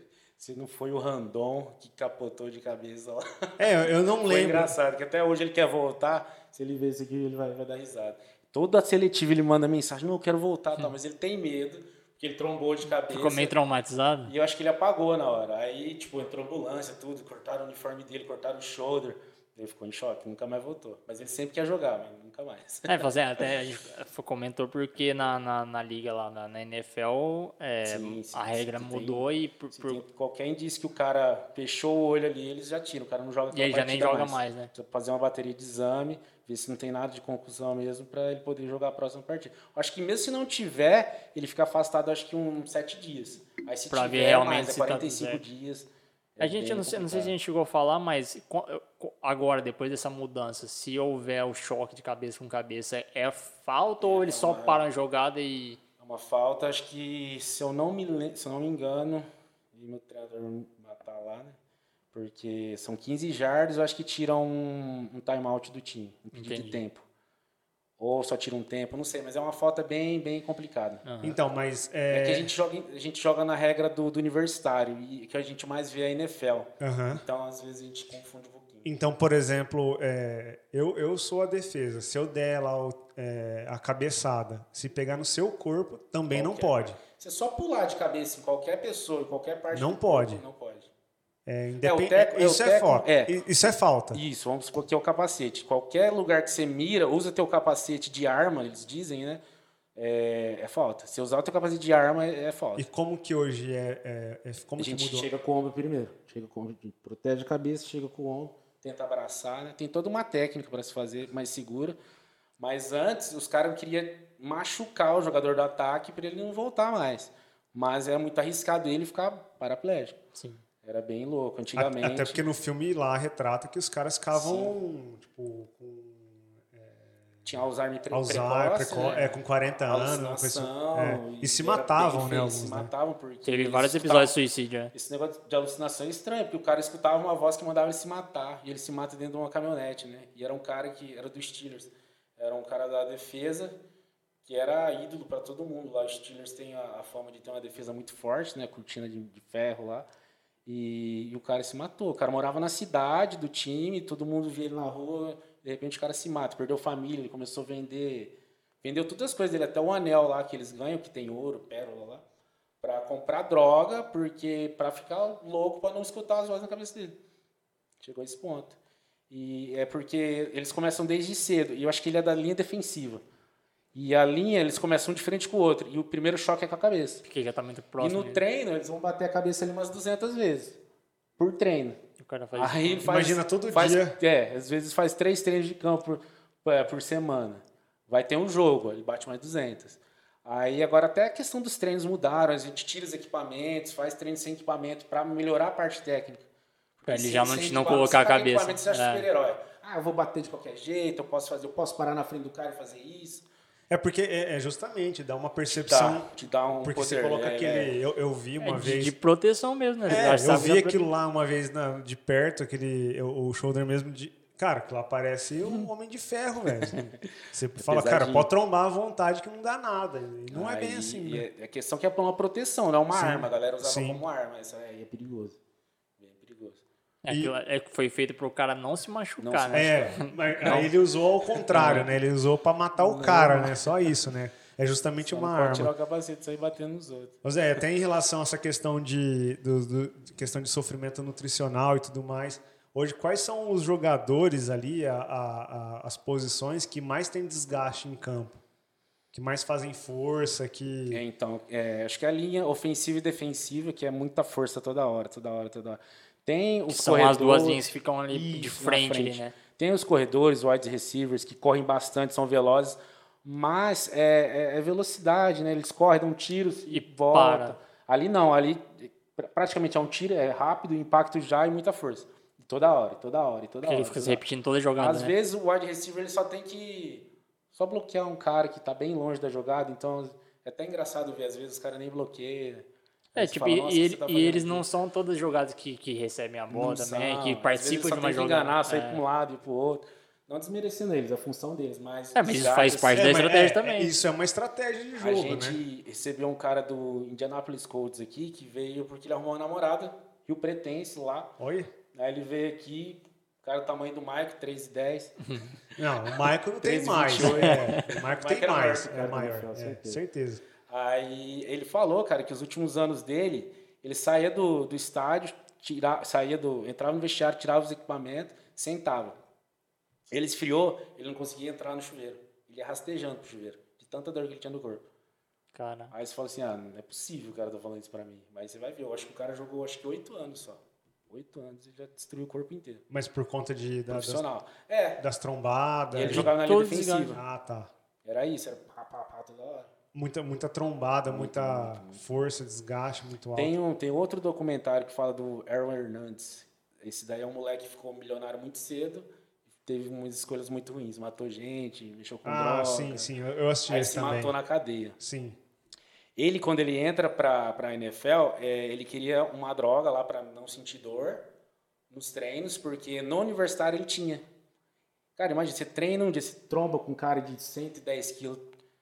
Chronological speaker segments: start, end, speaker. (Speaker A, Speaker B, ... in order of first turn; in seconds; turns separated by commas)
Speaker A: 0.4-13.5, Speaker B: 3.6-4.7, Speaker C: 12.9-14.3, Speaker A: 14.3-23.4, Speaker C: 22.9-30.0, Speaker A: 27.9-47.3, Speaker C: 33.5-34.7, Speaker C: 43.9-45.4, Speaker C: 46.4-55.8, Speaker A: 54.0-54.8, Speaker A: 56.0-61.6, Speaker A: 62.1-67.1, Speaker C: 66.3-66.8, Speaker A: 68.0-71.0, Speaker C: 71.0-71.4, Speaker B: 71.2-72.5, Speaker A: 72.1-78.9, Speaker B: 76.8-77.2, Speaker B: 78.8-87.0, Speaker A: 86.3-90.9, Speaker B: 89.7-90.4, Speaker B: 91.5-94.2, Speaker A: 91.8-99.4, Speaker A: 100.0-102.9, Speaker B: 102.8-105.3, Speaker A: 104.8-112.0, Speaker A: 112.6-120.2, Speaker C: 120.3-120.6, Speaker A: 120.8-122.4, Speaker B: 121.8-127.5, Speaker A: 124.3-124.7, Speaker A: 127.5-129.2, Speaker B: 128.1-132.9, Speaker C: 128.9-129.3, Speaker A: 129.8-134.4, Speaker C: 133.4-134.9, Speaker A: 134.9-143.8, Speaker A: 144.4-150.1, Speaker A: 150.7-162.2, Speaker A: 162.8-167.2, Speaker A: 168.0-168.8, Speaker A: 169.3-173.2, Speaker A: 173.9-177.2, Speaker C: 177.2-178.4, Speaker A: 178.0-180.8, Speaker A: 181.4-182.0, Speaker C: 182.2-183.1, Speaker A: 182.5-196.4, Speaker B: 183.0-184.2, Speaker A: 197.0-203.5, Speaker C: 197.1-199.3, Speaker B: 203.9-206.3, Speaker A: 205.7-207.9, Speaker B: 206.8-209.1, Speaker C: 208.6-211.1, Speaker B: 210.1-217.0, Speaker A: 210.1-210.4, Speaker B: 217.5-221.5, Speaker A: 217.8-218.5, Speaker A: 220.5-225.6, Speaker B: 223.1-224.2, Speaker A: 226.2-226.8, Speaker C: 227.2-230.9, Speaker B: 227.3-227.5, Speaker A: 229.4-230.8, Speaker B: 229.7-235.9, Speaker C: 231.7-232.1, Speaker A: 231.7-232.1, Speaker A: 232.9-233.9, Speaker A: 235.3-237.4, Speaker B: 237.4-248.6, Speaker B: 249.3-251.2, Speaker A: 251.1-274.4, Speaker C: 256.9-259.6, Speaker C: 266.9-267.8, Speaker C: 273.8-275.3, Speaker A: 275.0-284.9, Speaker C: 283.4-289.2, Speaker A: 286.7-293.5, Speaker C: 292.4-294.1, Speaker B: 293.1-295.8, Speaker A: 295.2-301.6, Speaker B: 301.6-301.9, Speaker A: 302.1-305.4, Speaker C: 305.5-305.7, Speaker B: 306.0-310.6, Speaker A: 306.8-310.2, Speaker C: 307.4-308.0, Speaker A: 310.9-319.4, Speaker A: 320.3-325.0, Speaker C: 325.8-326.1, Speaker A: 326.1-333.0, Speaker B: 333.1-334.4, Speaker A: 334.1-335.2, Speaker B: 335.2-336.5, Speaker A: 336.1-337.4, Speaker C: 336.2-337.4, Speaker B: 337.3-337.9, Speaker A: 338.2-339.9, Speaker B: 340.1-343.8, Speaker A: 341.3-342.2, Speaker A: 343.6-349.3, Speaker A: 349.8-353.3, Speaker B: 352.4-354.6, Speaker A: 353.9-355.2, Speaker B: 355.2-355.6, Speaker A: 356.4-361.5, Speaker A: 362.1-364.4, Speaker A: 365.4-368.7